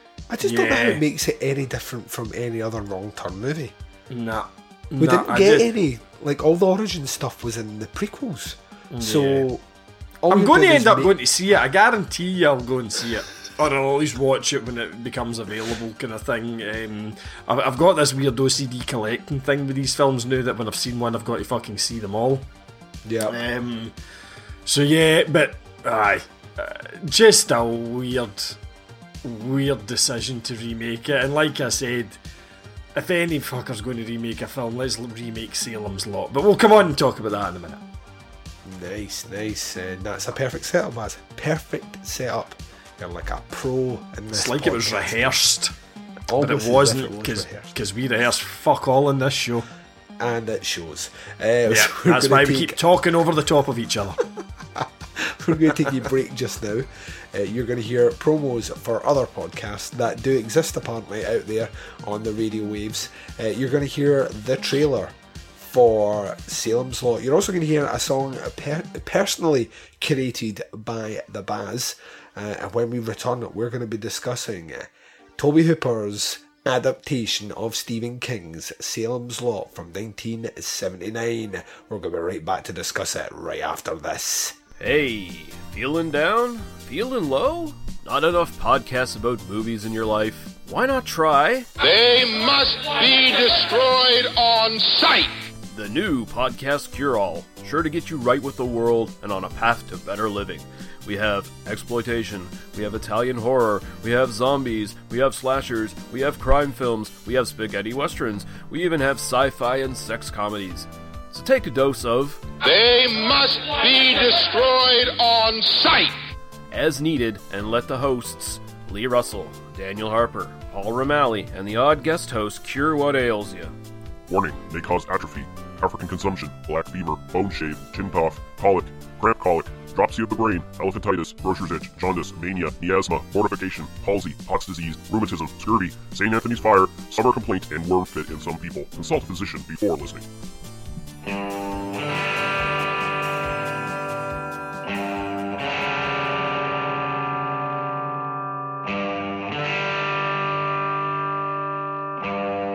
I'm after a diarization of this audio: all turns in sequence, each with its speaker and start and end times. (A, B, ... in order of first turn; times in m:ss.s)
0:00.3-0:03.8 A
0:00.4-0:01.0 B
0:04.1-0:05.7 B
0:05.0-0:09.6 A
0:08.9-0:09.5 B
0:10.2-0:11.2 A
0:10.3-0:22.5 B
0:23.0-0:23.4 A
0:23.2-0:23.9 B
0:24.7-0:28.6 B
0:29.2-0:32.2 B
0:33.0-0:37.8 B
0:38.6-0:45.4 A
0:44.3-0:45.7 B
0:46.3-0:47.7 A
0:46.4-0:49.7 B
0:50.2-0:52.8 A
0:51.7-0:54.2 B
0:54.8-1:24.6 A
1:24.8-1:31.7 C
1:31.8-1:35.5 D
1:35.7-1:52.5 C
1:52.6-1:56.2 D
1:56.7-2:03.7 C
2:04.3-2:20.3 E